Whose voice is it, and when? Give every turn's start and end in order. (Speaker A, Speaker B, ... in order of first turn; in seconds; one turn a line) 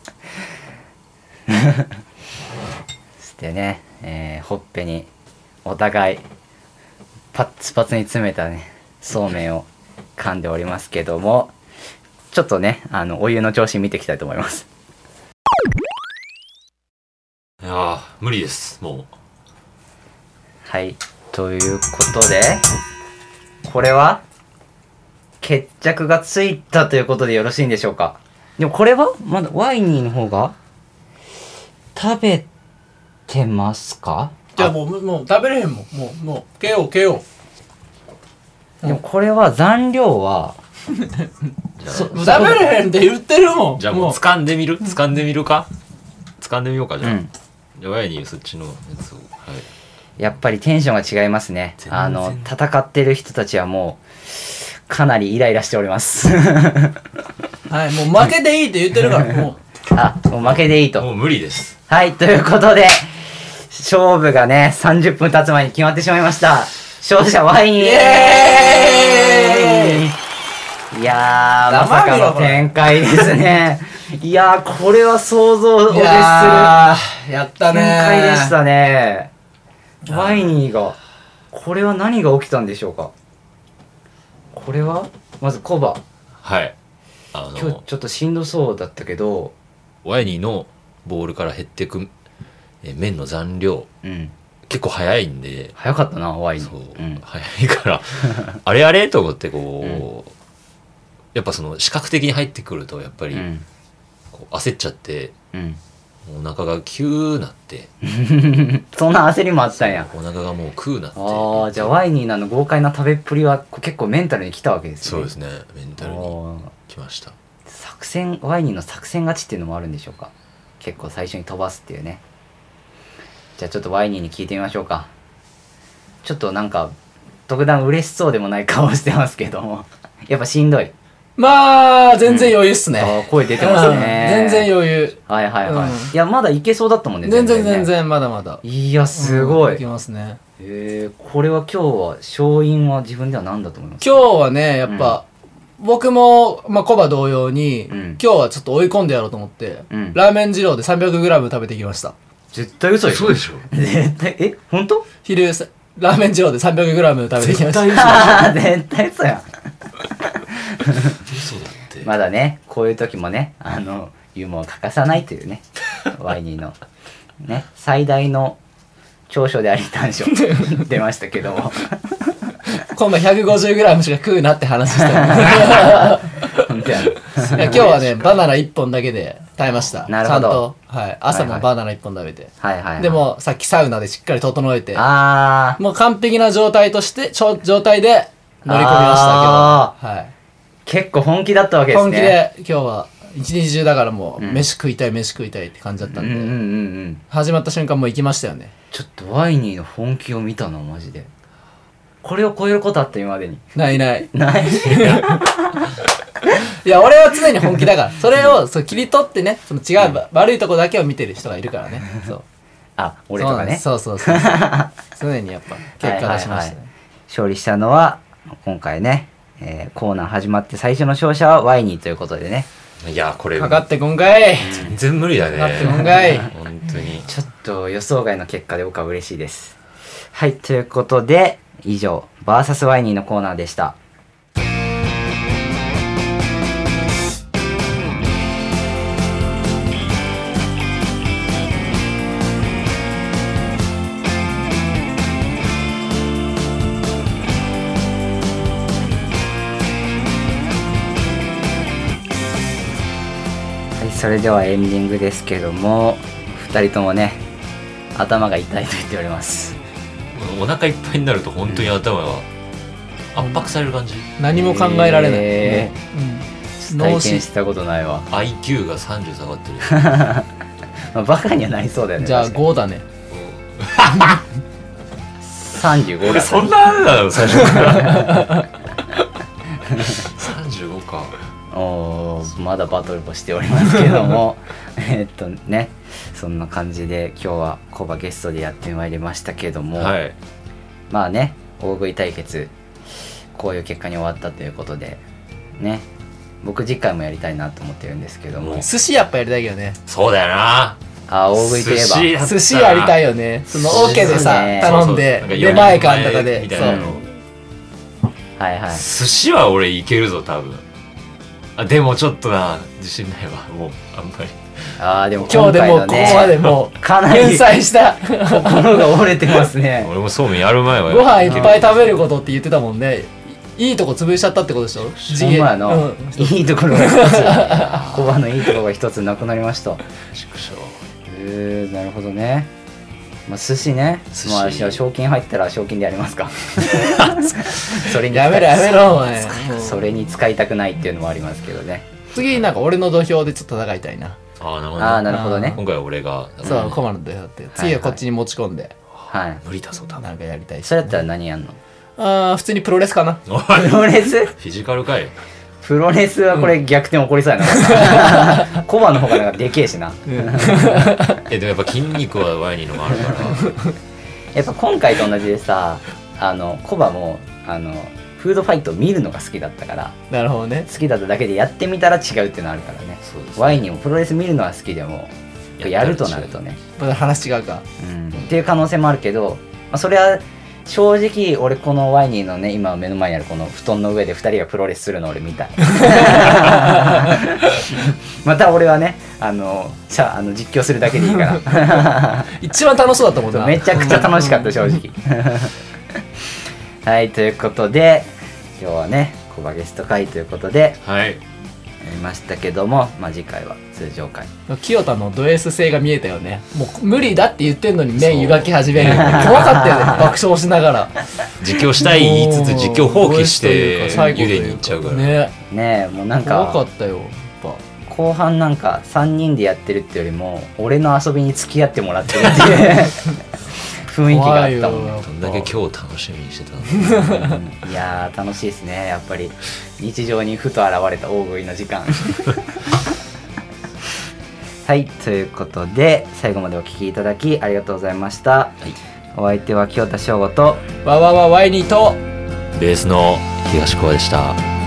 Speaker A: 1.5-1.9
Speaker A: 3.2-5.1
Speaker A: 5.7-6.2
Speaker A: 7.3-11.5
Speaker A: 12.3-14.7
Speaker B: 17.6-19.1
Speaker A: 20.7-22.6
Speaker A: 23.6-24.2
Speaker A: 25.4-30.6
Speaker A: 31.9-32.5
Speaker A: 33.3-34.5
Speaker C: 34.5-37.2
Speaker A: 38.8-40.6
Speaker B: 41.8-42.6
Speaker A: 41.9-42.7
Speaker C: 42.1-44.2
Speaker B: 43.8-45.7
Speaker B: 46.4-47.2
Speaker A: 47.0-47.3
Speaker B: 47.8-49.7
Speaker A: 50.2-57.0
Speaker B: 51.9-52.5
Speaker C: 57.7-59.6
Speaker A: 59.9-61.1
Speaker B: 60.4-61.8
Speaker A: 61.9-63.1
Speaker A: 63.7-70.2
Speaker C: 67.8-70.0
Speaker A: 70.9-76.8
Speaker C: 71.7-73.3
Speaker C: 75.9-78.6
Speaker A: 77.7-79.3
Speaker A: 80.1-81.0
Speaker A: 81.5-83.1
Speaker A: 84.5-86.0
Speaker B: 86.4-86.8
Speaker B: 87.3-87.8
Speaker A: 87.6-89.5
Speaker B: 90.0-92.1
Speaker B: 92.8-93.9
Speaker A: 94.0-94.3
Speaker B: 94.7-95.8
Speaker A: 95.8-97.2
Speaker B: 96.6-100.3
Speaker B: 101.3-103.5
Speaker A: 103.3-103.7
Speaker B: 104.3-105.3
Speaker A: 105.5-105.8
Speaker B: 106.2-107.9
Speaker A: 108.0-110.1
Speaker B: 109.8-112.0
Speaker A: 111.2-115.3
Speaker B: 115.0-117.4
Speaker A: 116.0-116.7
Speaker A: 117.7-122.2
Speaker A: 123.6-125.1
Speaker A: 126.2-126.9
Speaker A: 127.5-130.9
Speaker C: 131.4-136.1
Speaker A: 132.3-134.7
Speaker A: 135.3-137.9
Speaker C: 137.2-138.6
Speaker A: 138.6-139.8
Speaker C: 139.2-140.4
Speaker A: 140.6-144.2
Speaker C: 144.0-145.2
Speaker A: 144.9-145.2
Speaker C: 145.8-152.2
Speaker A: 147.9-148.2
Speaker A: 149.9-150.2
Speaker A: 152.5-155.1
Speaker B: 153.0-153.7
Speaker C: 155.2-158.5
Speaker B: 157.4-158.4
Speaker A: 157.9-159.5
Speaker A: 160.3-161.3
Speaker B: 161.3-162.1
Speaker A: 162.0-166.8
Speaker A: 167.4-168.6
Speaker A: 169.3-172.4
Speaker C: 172.9-185.1
Speaker A: 175.0-178.2
Speaker A: 180.1-180.7
Speaker A: 181.3-181.7
Speaker A: 182.6-183.2
Speaker A: 184.9-185.8
Speaker C: 185.8-190.3
Speaker A: 188.7-189.9
Speaker A: 190.9-192.4
Speaker C: 191.9-196.6
Speaker A: 194.4-194.7
Speaker A: 196.1-197.2
Speaker C: 197.3-198.7
Speaker A: 198.9-201.3
Speaker A: 202.2-203.7
Speaker C: 203.8-205.4
Speaker A: 204.3-205.8
Speaker C: 206.7-212.3
Speaker A: 212.2-212.4
Speaker A: 213.0-214.9
Speaker C: 213.4-216.9
Speaker A: 216.0-216.8
Speaker A: 217.3-222.7
Speaker B: 223.0-223.9
Speaker C: 223.6-224.8
Speaker A: 224.6-225.0
Speaker B: 224.7-227.3
Speaker C: 225.6-226.5
Speaker A: 226.2-226.5
Speaker A: 227.2-229.8
Speaker A: 230.3-234.0
Speaker A: 254.0-257.4
Speaker A: 258.1-259.8
Speaker B: 260.3-262.5
Speaker B: 263.3-264.3
Speaker C: 264.4-267.4
Speaker A: 264.5-265.9
Speaker A: 266.8-268.3
Speaker B: 268.3-270.3
Speaker A: 269.9-270.5
Speaker A: 271.1-272.6
Speaker C: 272.2-273.0
Speaker B: 273.3-274.4
Speaker A: 275.4-276.8
Speaker B: 276.2-278.6
Speaker C: 277.8-278.2
Speaker A: 278.1-278.4
Speaker A: 279.9-280.2
Speaker B: 279.9-281.4
Speaker A: 281.7-290.2
Speaker B: 290.0-290.4
Speaker A: 291.1-292.7
Speaker A: 293.6-295.2
Speaker A: 295.8-296.1
Speaker A: 296.6-298.9
Speaker B: 298.6-298.9
Speaker C: 298.8-300.0
Speaker B: 300.1-301.0
Speaker A: 301.3-302.3
Speaker B: 301.5-303.2
Speaker C: 302.4-307.2
Speaker B: 303.7-307.3
Speaker A: 303.9-305.1
Speaker A: 306.8-307.2
Speaker A: 308.6-309.1
Speaker B: 308.9-310.9
Speaker B: 311.8-314.9
Speaker A: 315.0-317.7
Speaker C: 315.5-319.2
Speaker A: 318.4-320.1
Speaker B: 320.0-322.2
Speaker C: 321.1-327.9
Speaker A: 321.4-321.8
Speaker B: 325.1-325.7
Speaker A: 325.3-330.0
Speaker B: 327.7-328.4
Speaker B: 330.3-331.0
Speaker A: 331.3-332.7
Speaker A: 333.5-342.1
Speaker B: 334.3-335.0
Speaker B: 336.8-338.0
Speaker C: 338.3-340.0
Speaker C: 342.3-344.4
Speaker B: 344.6-347.0
Speaker A: 345.0-345.8
Speaker C: 345.3-345.8
Speaker C: 346.6-348.9
Speaker A: 347.8-348.2
Speaker A: 349.3-349.6
Speaker B: 349.6-350.2
Speaker C: 350.2-351.0
Speaker A: 350.8-351.8
Speaker C: 352.2-353.4
Speaker B: 353.5-355.4
Speaker A: 353.7-354.6
Speaker A: 355.8-361.2
Speaker C: 357.7-358.7
Speaker C: 360.3-361.4
Speaker B: 361.4-363.8
Speaker A: 364.5-370.2
Speaker C: 370.3-370.9
Speaker A: 370.9-376.8
Speaker B: 373.2-373.9
Speaker B: 375.8-376.6
Speaker C: 377.0-377.9
Speaker A: 378.0-392.5
Speaker C: 385.9-387.5
Speaker C: 391.7-395.0
Speaker A: 393.5-395.8
Speaker A: 397.0-401.0
Speaker B: 401.0-401.4
Speaker A: 402.0-404.5
Speaker C: 404.7-411.2
Speaker B: 408.2-410.3
Speaker A: 409.1-410.3
Speaker B: 411.6-415.4
Speaker C: 411.9-415.6
Speaker A: 415.7-416.8
Speaker C: 416.4-417.8
Speaker A: 418.0-425.2
Speaker C: 422.6-423.0
Speaker C: 424.3-425.6
Speaker B: 425.2-427.6
Speaker C: 426.9-427.5
Speaker A: 427.4-432.9
Speaker A: 434.9-438.8
Speaker A: 439.4-440.9
Speaker C: 441.0-442.2
Speaker B: 442.7-444.6